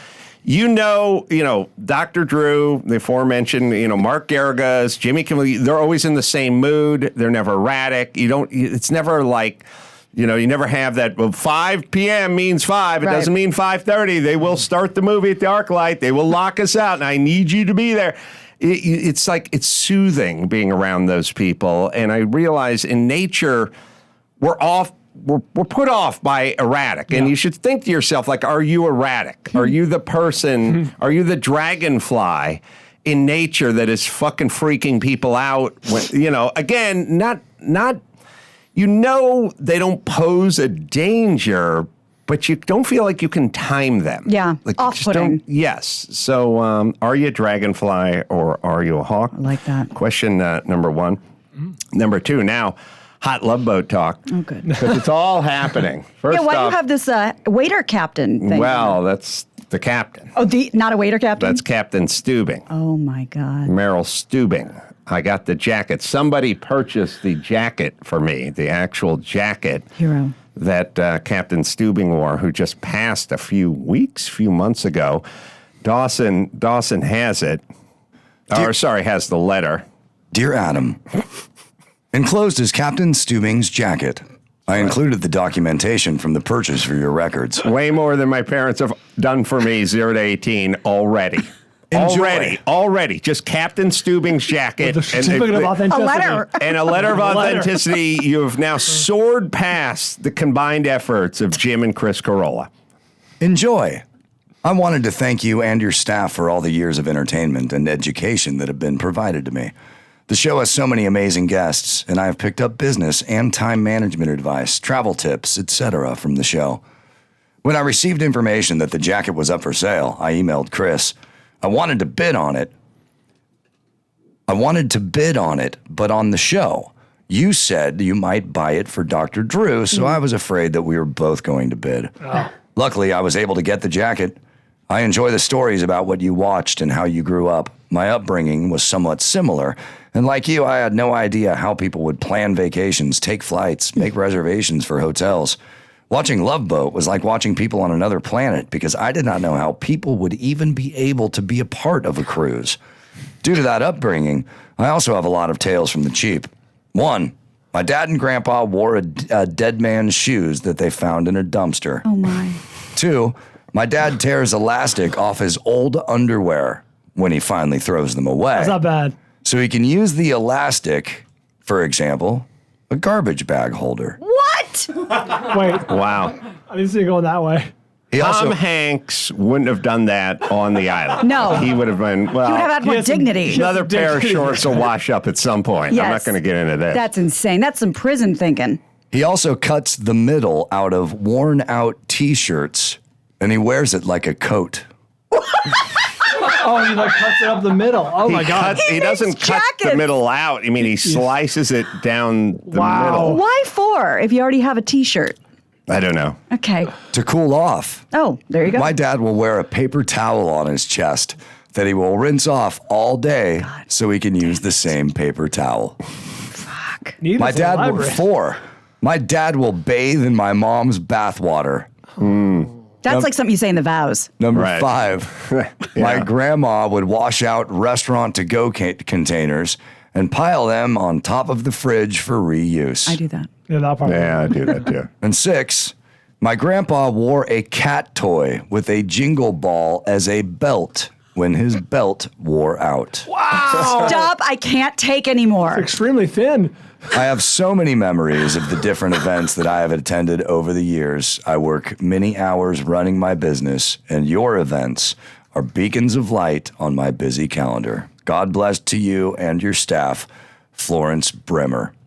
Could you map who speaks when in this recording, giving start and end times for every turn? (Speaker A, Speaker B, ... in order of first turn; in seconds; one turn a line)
Speaker A: 0.4-23.7
Speaker B: 13.0-13.3
Speaker A: 24.4-38.0
Speaker A: 38.7-49.4
Speaker B: 44.2-45.4
Speaker B: 49.3-49.9
Speaker A: 49.9-51.2
Speaker A: 51.9-56.8
Speaker B: 54.3-54.7
Speaker B: 56.3-59.0
Speaker A: 58.4-60.3
Speaker B: 60.4-61.6
Speaker A: 61.4-62.6
Speaker B: 62.7-63.7
Speaker A: 63.6-69.9
Speaker B: 70.0-70.3
Speaker A: 70.5-75.2
Speaker A: 75.8-77.6
Speaker A: 78.5-79.8
Speaker C: 80.3-81.0
Speaker C: 82.1-87.7
Speaker A: 87.6-95.8
Speaker C: 91.9-92.6
Speaker D: 94.8-97.7
Speaker B: 95.9-97.0
Speaker A: 96.5-102.7
Speaker C: 103.4-104.0
Speaker C: 104.6-109.7
Speaker C: 110.3-116.8
Speaker C: 117.6-122.7
Speaker C: 124.5-134.4
Speaker C: 134.9-145.6
Speaker C: 146.1-152.8
Speaker C: 153.4-162.1
Speaker B: 162.0-162.6
Speaker C: 162.9-168.8
Speaker D: 168.6-169.1
Speaker C: 169.4-174.2
Speaker B: 174.2-174.9
Speaker D: 175.3-176.0
Speaker A: 175.9-176.4
Speaker D: 176.5-177.7
Speaker C: 178.1-178.6
Speaker A: 178.2-182.8
Speaker B: 181.2-181.7
Speaker B: 182.4-183.6
Speaker D: 182.8-184.8
Speaker A: 183.4-187.1
Speaker B: 185.9-186.3
Speaker B: 186.9-188.8
Speaker C: 189.1-194.8
Speaker D: 196.4-198.8
Speaker A: 198.2-203.4
Speaker B: 198.7-200.1
Speaker D: 202.7-203.4
Speaker B: 203.1-205.4
Speaker A: 205.9-206.4
Speaker B: 206.5-206.9
Speaker C: 207.1-208.1
Speaker B: 208.1-208.9
Speaker C: 208.7-216.0
Speaker B: 216.5-217.2
Speaker D: 217.2-218.2
Speaker C: 217.4-221.9
Speaker A: 222.2-222.7
Speaker B: 223.0-224.3
Speaker C: 224.4-225.4
Speaker A: 224.5-224.9
Speaker A: 225.4-226.3
Speaker C: 225.9-233.2
Speaker B: 233.1-233.5
Speaker D: 233.7-234.7
Speaker A: 234.0-235.1
Speaker C: 235.2-243.3
Speaker D: 243.4-244.1
Speaker B: 243.8-245.9
Speaker D: 245.7-246.7
Speaker C: 247.1-261.9